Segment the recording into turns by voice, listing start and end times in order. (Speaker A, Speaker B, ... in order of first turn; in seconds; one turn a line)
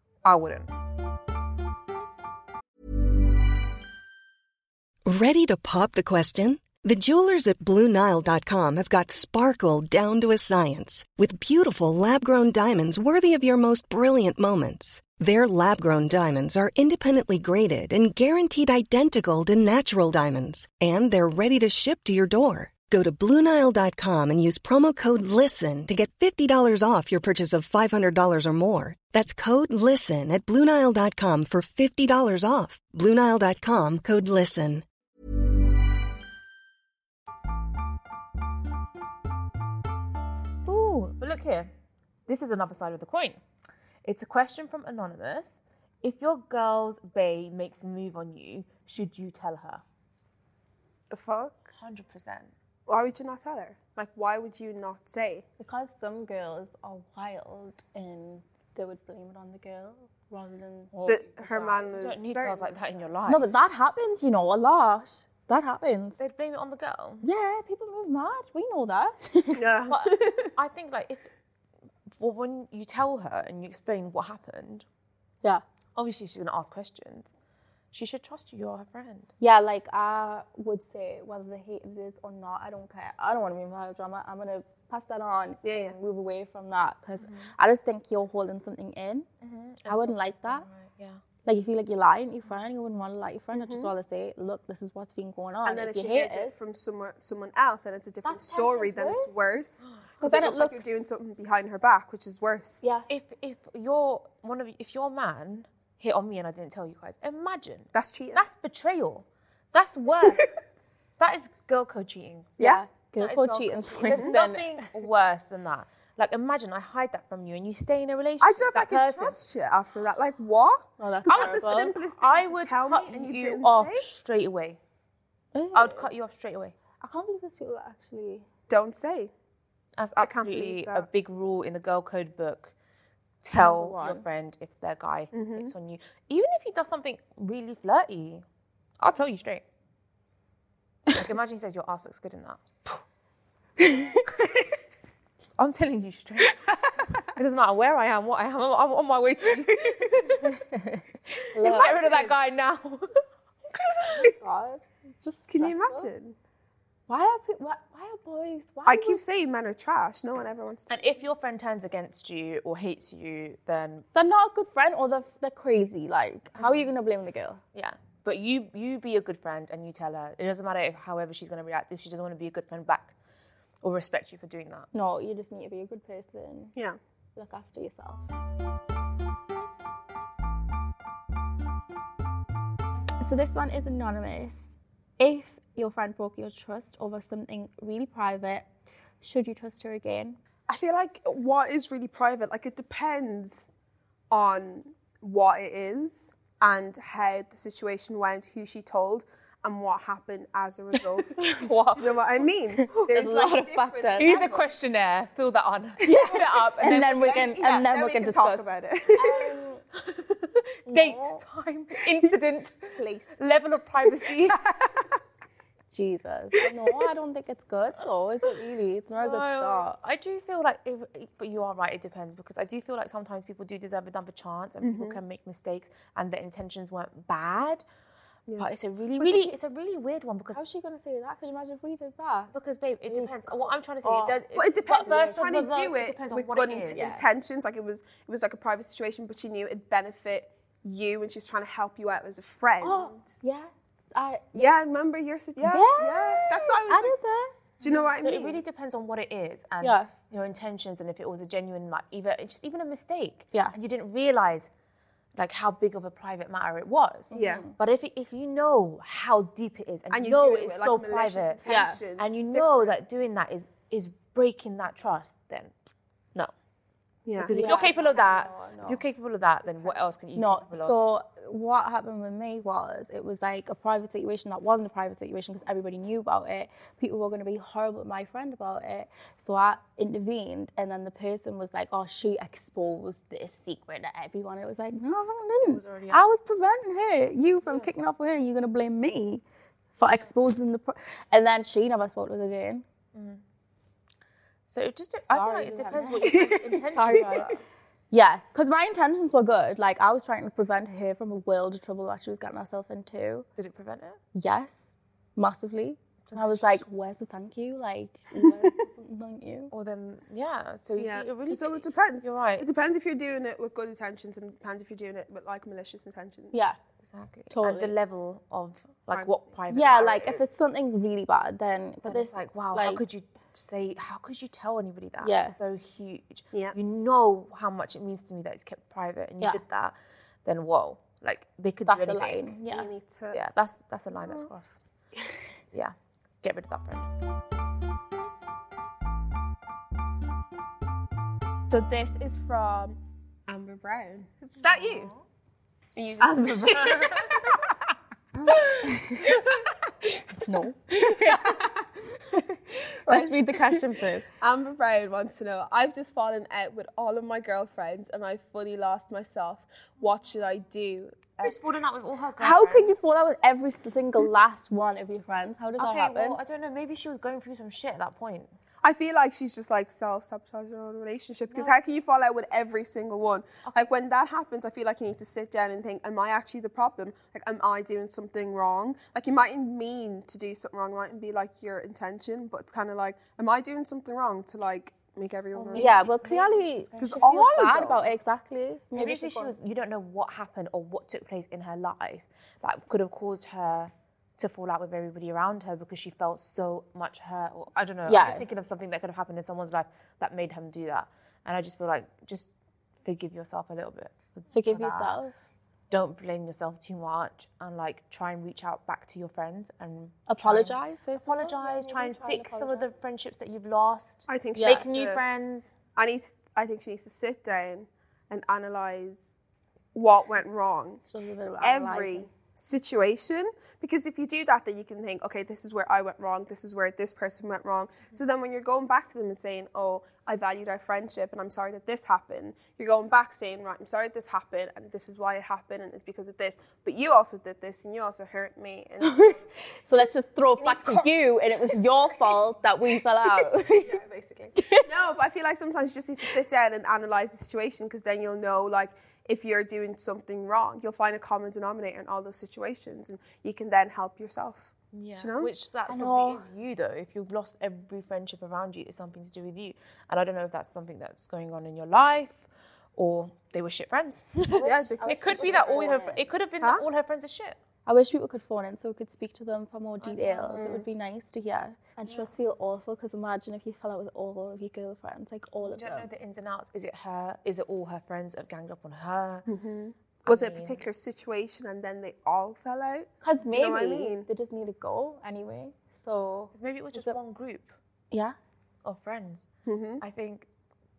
Speaker A: 0.2-0.7
Speaker B: 5.1-34.9
Speaker A: 40.7-41.7
Speaker A: 42.3-43.4
Speaker A: 44.0-49.8
Speaker C: 51.1-51.7
Speaker A: 51.8-52.5
Speaker C: 52.9-55.4
Speaker D: 55.6-60.9
Speaker A: 60.9-63.5
Speaker C: 61.1-62.8
Speaker D: 63.3-66.2
Speaker A: 66.2-67.2
Speaker D: 67.2-69.7
Speaker C: 69.5-70.5
Speaker A: 69.9-71.3
Speaker A: 72.2-74.8
Speaker A: 76.0-77.3
Speaker A: 77.9-79.3
Speaker D: 79.4-89.3
Speaker C: 85.6-86.0
Speaker A: 87.2-87.5
Speaker A: 89.4-91.2
Speaker D: 89.9-90.7
Speaker D: 91.5-96.5
Speaker C: 93.5-93.9
Speaker C: 95.7-102.9
Speaker D: 98.2-99.5
Speaker D: 100.2-101.0
Speaker A: 103.1-110.5
Speaker C: 107.9-108.4
Speaker A: 111.2-112.6
Speaker D: 112.6-114.9
Speaker A: 113.2-119.4
Speaker C: 114.1-114.4
Speaker C: 118.4-124.1
Speaker D: 121.0-121.9
Speaker A: 121.3-124.8
Speaker D: 125.5-126.1
Speaker A: 125.7-126.8
Speaker D: 127.0-128.4
Speaker C: 128.7-129.3
Speaker A: 130.0-132.7
Speaker C: 130.2-131.1
Speaker A: 133.4-138.4
Speaker D: 133.6-134.2
Speaker C: 135.3-135.7
Speaker A: 139.0-139.7
Speaker A: 141.1-142.7
Speaker D: 143.8-144.2
Speaker A: 145.6-146.7
Speaker A: 147.2-150.6
Speaker D: 150.5-151.0
Speaker D: 151.5-152.1
Speaker A: 151.6-154.3
Speaker C: 151.6-152.3
Speaker D: 154.2-156.1
Speaker C: 155.5-156.4
Speaker D: 157.1-159.2
Speaker C: 158.9-160.9
Speaker A: 160.9-164.1
Speaker D: 164.1-167.6
Speaker A: 167.8-173.1
Speaker A: 173.8-174.9
Speaker D: 174.9-176.8
Speaker D: 177.4-178.2
Speaker D: 183.2-188.7
Speaker D: 189.2-190.4
Speaker C: 190.7-193.7
Speaker C: 194.3-204.7
Speaker A: 201.3-202.2
Speaker D: 202.7-204.4
Speaker A: 204.2-207.4
Speaker D: 206.0-209.8
Speaker C: 207.0-209.6
Speaker D: 210.9-211.4
Speaker A: 210.9-214.6
Speaker C: 213.0-213.3
Speaker C: 214.1-215.1
Speaker D: 215.9-219.9
Speaker A: 219.2-227.8
Speaker C: 224.8-225.2
Speaker A: 228.6-230.6
Speaker D: 230.5-232.5
Speaker A: 232.5-237.2
Speaker D: 233.1-233.4
Speaker D: 234.0-235.5
Speaker C: 234.6-243.3
Speaker D: 236.9-237.2
Speaker D: 242.8-244.7
Speaker C: 244.5-247.2
Speaker D: 245.6-247.6
Speaker C: 247.8-248.6
Speaker A: 247.8-254.7
Speaker D: 249.8-250.1
Speaker A: 255.4-261.6
Speaker D: 257.3-257.7
Speaker C: 257.3-257.6
Speaker C: 260.1-262.9
Speaker D: 261.7-262.0
Speaker A: 262.2-265.7
Speaker C: 267.3-267.8
Speaker A: 267.4-270.9
Speaker D: 267.5-269.0
Speaker D: 270.4-289.4
Speaker A: 285.6-286.2
Speaker D: 290.0-292.9
Speaker A: 293.1-293.4
Speaker A: 294.7-297.6
Speaker D: 295.3-297.6
Speaker C: 296.3-297.4
Speaker D: 298.1-303.5
Speaker A: 303.6-304.2
Speaker D: 304.4-309.7
Speaker A: 306.3-306.8
Speaker C: 308.4-308.7
Speaker A: 309.7-312.7
Speaker C: 311.0-316.7
Speaker D: 316.5-316.8
Speaker A: 317.1-320.4
Speaker D: 317.5-317.9
Speaker C: 319.1-319.5
Speaker D: 319.7-323.0
Speaker A: 322.1-332.6
Speaker D: 325.2-325.6
Speaker D: 331.9-332.9
Speaker C: 332.7-333.4
Speaker A: 333.3-334.8
Speaker A: 335.7-337.1
Speaker C: 341.7-345.1
Speaker A: 344.6-345.1
Speaker C: 346.0-347.7
Speaker A: 346.2-347.6
Speaker D: 348.4-349.3
Speaker D: 350.4-351.6
Speaker C: 351.2-351.8
Speaker D: 353.1-354.3
Speaker C: 354.4-361.6
Speaker A: 361.4-363.0
Speaker D: 362.4-366.4
Speaker A: 365.8-368.5
Speaker C: 368.8-386.0
Speaker A: 385.5-387.9
Speaker D: 385.8-389.5
Speaker C: 387.0-388.0
Speaker A: 388.9-402.5
Speaker D: 398.1-398.4
Speaker A: 403.1-405.2
Speaker D: 404.5-405.3
Speaker A: 405.9-415.7
Speaker D: 410.3-412.9
Speaker C: 414.3-415.2
Speaker D: 414.6-414.9
Speaker C: 416.0-419.3
Speaker C: 419.9-421.0
Speaker D: 421.1-422.3
Speaker C: 421.6-439.4
Speaker D: 439.0-444.0
Speaker C: 440.6-441.1
Speaker C: 441.7-442.4
Speaker C: 443.3-455.5
Speaker D: 444.6-444.9
Speaker A: 454.9-462.4
Speaker D: 455.9-456.5
Speaker A: 463.0-467.6
Speaker D: 464.5-466.2
Speaker C: 464.6-466.8
Speaker D: 467.9-476.1
Speaker A: 470.0-470.7
Speaker C: 470.6-470.9
Speaker A: 475.6-479.5
Speaker C: 479.5-484.3
Speaker A: 480.2-480.8
Speaker D: 483.2-487.2
Speaker A: 486.5-487.7
Speaker A: 488.8-489.5
Speaker C: 489.7-490.0
Speaker A: 490.0-490.5